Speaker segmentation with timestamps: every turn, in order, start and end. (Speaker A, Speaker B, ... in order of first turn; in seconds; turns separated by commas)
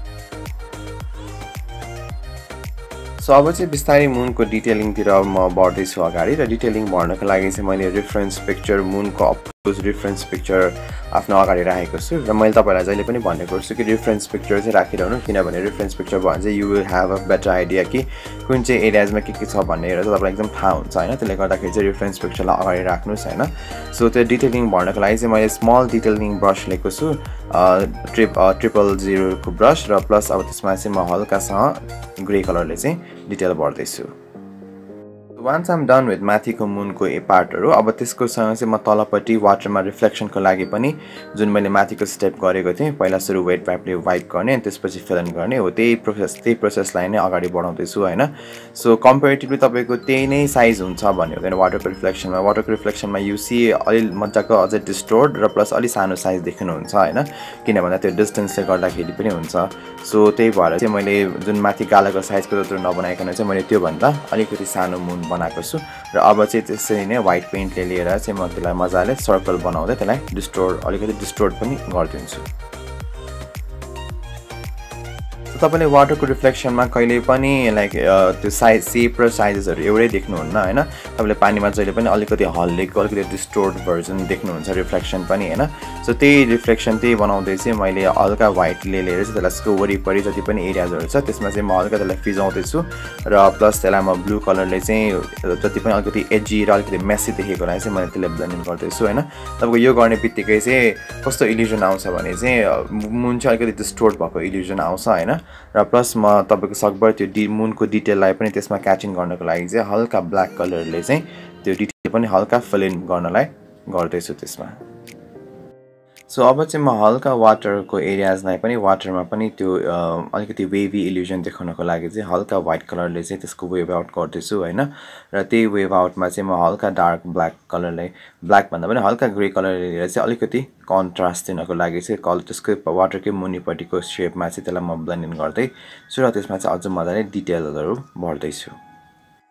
Speaker A: 3.2-34.1, Speaker A: 35.4-72.5, Speaker A: 75.5-114.8, Speaker A: 116.3-138.8